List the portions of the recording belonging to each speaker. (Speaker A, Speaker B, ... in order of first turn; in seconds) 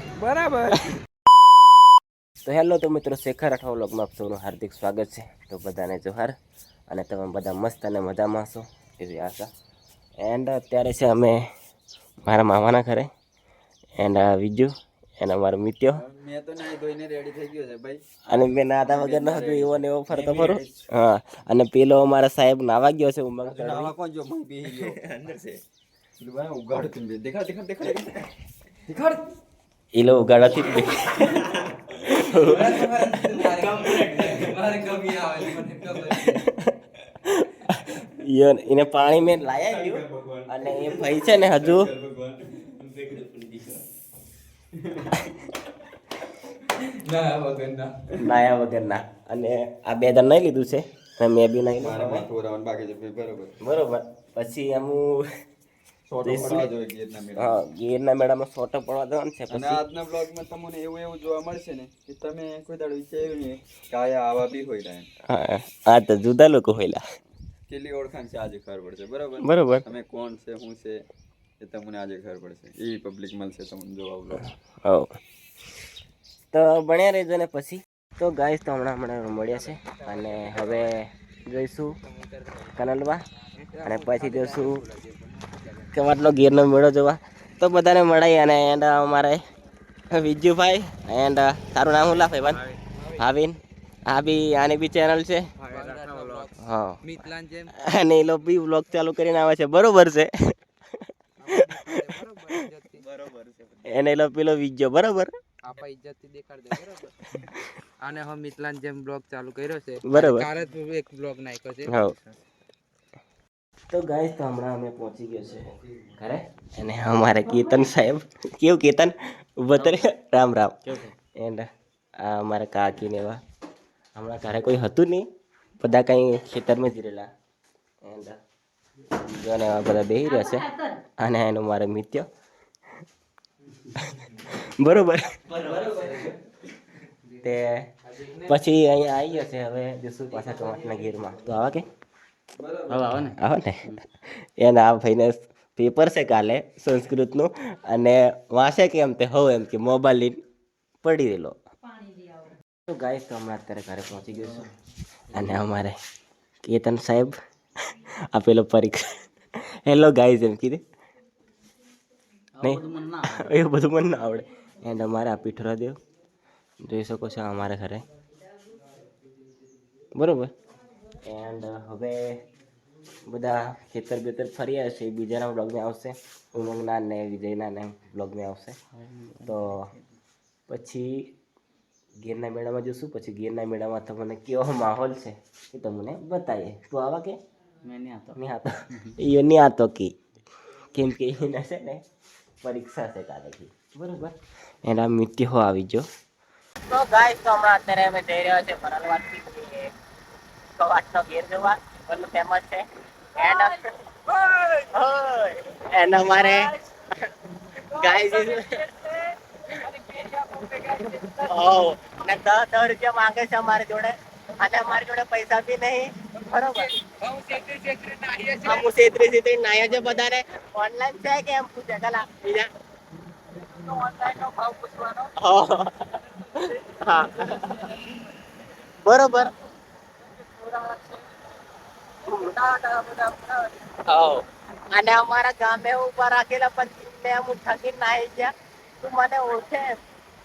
Speaker A: 0.2-0.9, 32.3-36.4, 79.7-80.8, 83.6-85.9, 95.6-97.8, 101.4-103.0, 105.6-107.4, 108.0-112.3, 135.7-136.3, 138.1-138.5, 140.4-141.0, 142.9-143.3, 162.6-163.5, 187.8-188.3, 217.1-218.6
Speaker B: 2.5-6.4, 6.9-9.5, 10.2-11.5, 12.3-13.1, 14.0-16.0, 18.3-23.9, 29.9-34.4, 35.7-41.9, 48.2-52.3, 53.6-55.3, 56.2-56.7, 57.4-59.8, 65.3-67.0, 69.4-69.8, 74.8-75.1, 76.5-81.9, 82.7-83.2, 83.8-84.8, 85.9-89.4, 90.1-92.6, 93.2-95.5, 96.6-97.1, 97.7-102.5, 103.8-105.3, 107.4-107.7, 110.0-110.5, 111.9-112.2, 113.9-121.7, 122.2-123.4, 124.2-125.3, 125.8-127.3, 128.0-128.4, 129.3-132.3, 133.9-135.3, 137.4-137.9, 138.4-141.8, 143.1-150.4, 151.0-151.6, 152.9-154.7, 155.3-156.0, 156.6-157.3, 157.8-160.8, 162.6-165.9, 166.8-168.0, 170.2-170.5, 171.2-172.4, 173.3-178.8, 179.4-179.9, 180.7-181.3, 182.2-187.4, 188.3-190.1, 190.9-192.0, 192.6-194.3, 194.8-196.1, 196.9-199.9, 200.8-206.8, 207.8-217.4, 218.5-222.7, 223.7-228.0, 229.0-229.5, 230.3-231.3, 232.2-240.0
Speaker C: 16.0-18.0, 18.9-20.9, 23.4-25.6, 26.2-28.3, 28.9-29.2, 33.2-33.6, 34.8-35.1, 39.6-43.8, 44.9-45.2, 47.1-48.0, 51.8-53.6, 56.1-57.6, 59.5-65.1, 67.7-71.0, 71.6-74.5, 95.7-96.5, 103.0-104.0, 142.6-143.2